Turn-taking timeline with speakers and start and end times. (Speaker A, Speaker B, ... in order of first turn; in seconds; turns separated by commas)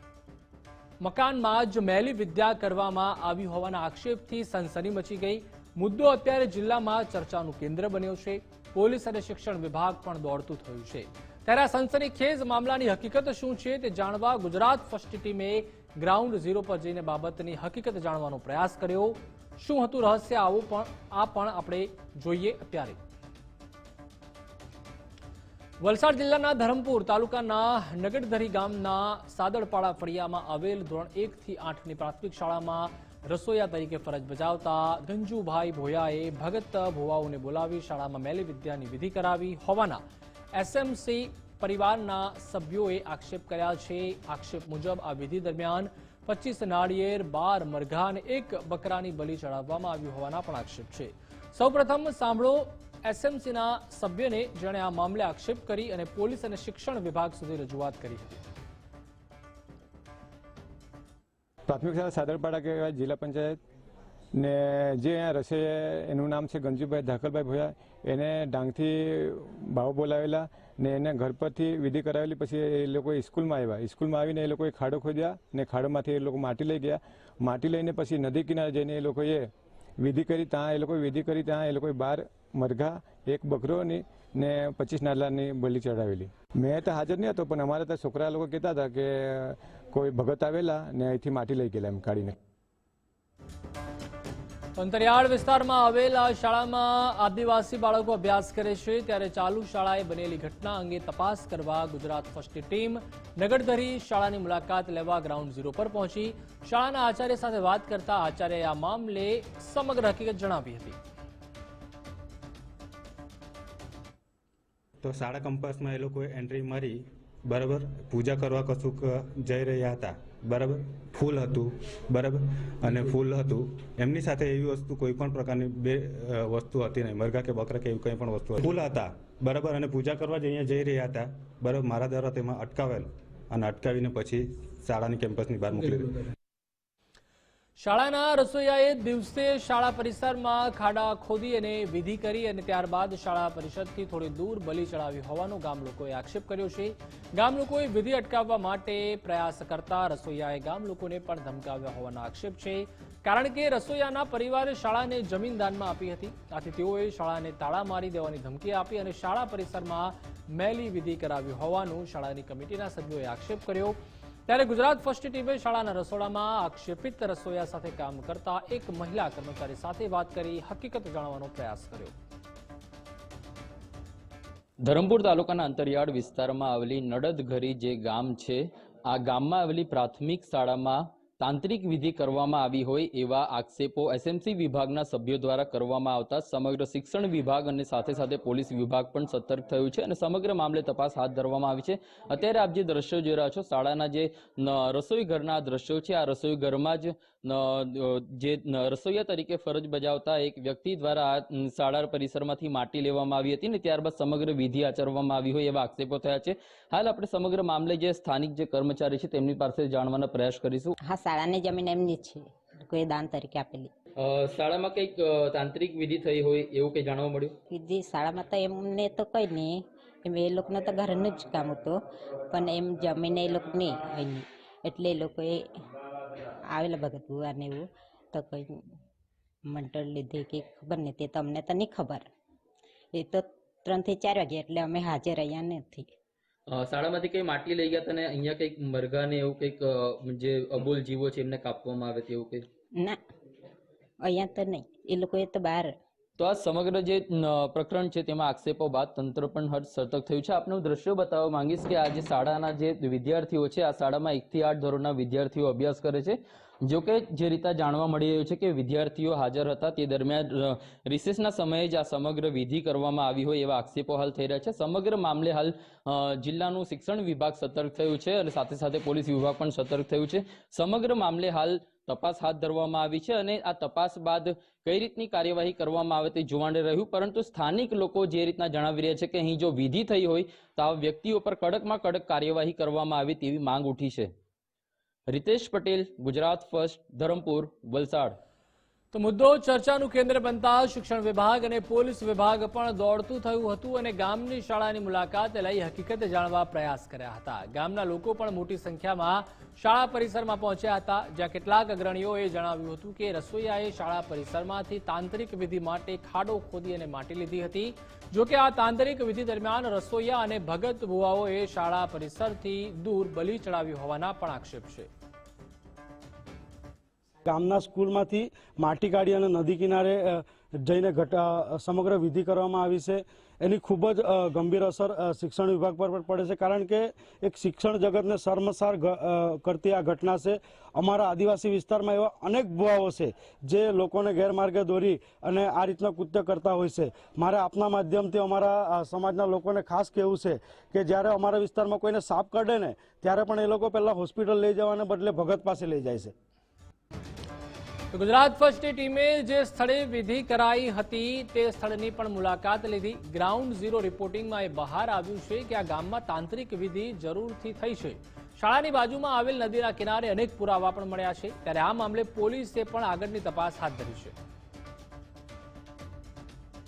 Speaker A: 1.0-23.0, Speaker A: 25.8-40.0, Speaker A: 40.5-58.4, Speaker B: 61.7-63.6, Speaker B: 64.3-92.3, Speaker A: 94.8-111.0, Speaker C: 115.0-136.2, Speaker A: 137.8-172.1, Speaker D: 174.8-210.9, Speaker E: 211.1-213.9, Speaker D: 214.2-217.5, Speaker E: 217.7-225.6, Speaker E: 226.4-228.9, Speaker E: 229.7-232.3, Speaker E: 233.2-236.1, Speaker D: 236.7-242.6, Speaker E: 244.2-245.9, Speaker D: 246.4-284.3, Speaker D: 285.3-288.3, Speaker A: 289.1-315.1, Speaker F: 317.4-346.3, Speaker A: 348.1-364.3